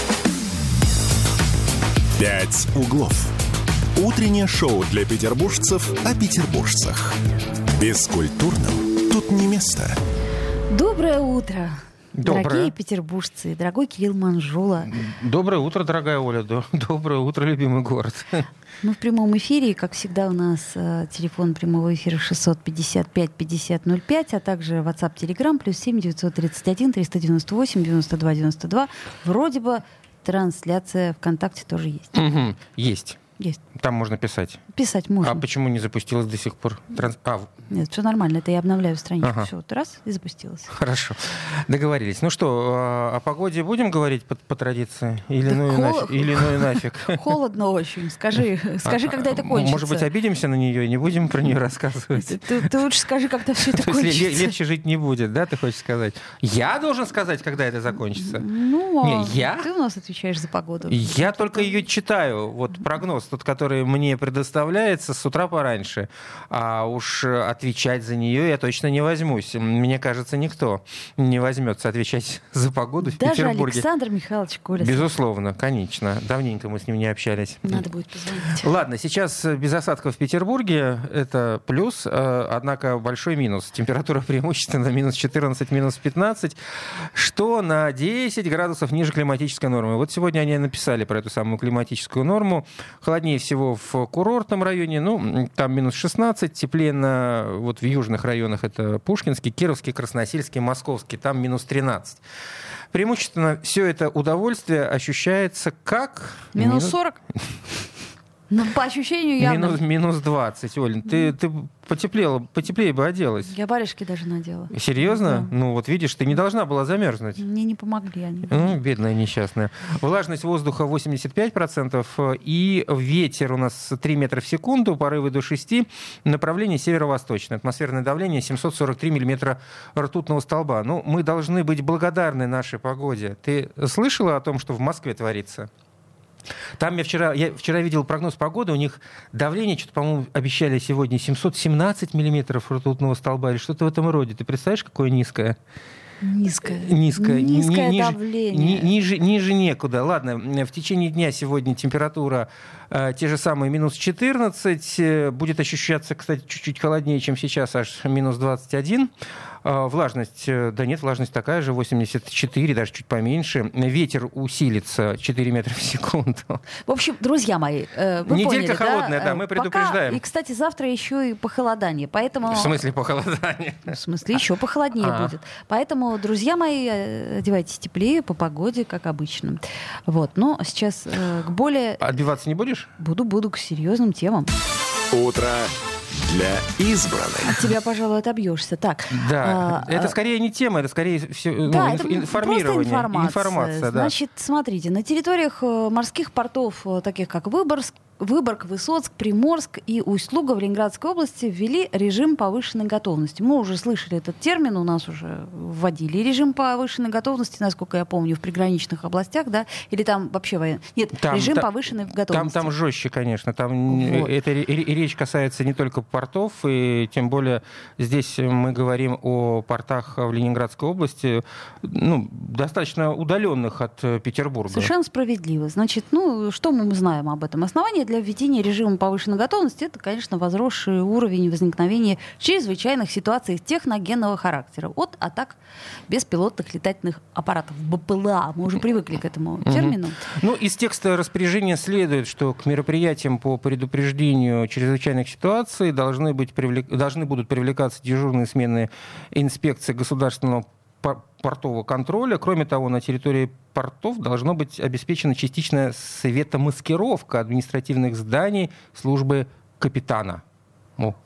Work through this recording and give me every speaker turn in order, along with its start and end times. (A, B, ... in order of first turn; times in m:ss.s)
0:02.2-0:03.3 A
0:04.0-0:07.2 A
0:07.7-0:10.0 A
0:10.7-0:15.0 B
0:12.2-0:12.7 C
0:14.9-0:18.4 C
0:18.8-0:32.2 B
0:32.1-0:33.2 C
0:33.7-0:34.6 C
0:34.7-0:35.4 B
0:35.2-0:37.5 C
0:37.7-0:40.7 B
0:39.2-0:39.5 C
0:40.7-0:47.2 C
0:45.5-0:50.0 B
0:48.8-0:52.5 C
0:52.2-0:54.5 B
0:53.7-0:58.4 C
0:58.1-1:01.7 B
0:59.0-0:59.7 C
1:00.9-1:13.8 C
1:13.0-1:15.0 B
1:14.8-1:17.8 C
1:17.6-1:18.7 B
1:18.6-1:26.6 C
1:27.1-1:42.2 C
1:42.9-1:46.9 C
1:46.5-1:47.2 B
1:48.5-1:49.8 B
1:49.4-1:53.5 C
1:53.5-1:55.5 B
1:54.7-1:57.4 C
1:57.4-1:58.7 B
1:58.5-2:15.7 C
2:16.8-2:25.6 C
2:26.2-2:28.9 B
2:26.6-2:39.1 C
2:39.6-2:46.6 C
2:46.8-2:52.7 B
2:48.3-2:50.2 C
2:52.5-2:54.0 C
2:53.9-3:02.0 B
2:55.0-2:55.3 C
3:02.0-3:02.9 C
3:03.0-3:04.5 B
3:05.1-3:07.6 A
3:07.4-3:10.1 B
3:09.1-3:14.1 C
3:11.6-3:32.7 B
3:31.2-3:31.6 C
3:32.3-3:44.9 C
3:33.9-3:34.3 B
3:44.7-4:00.2 B
3:59.6-4:20.4 C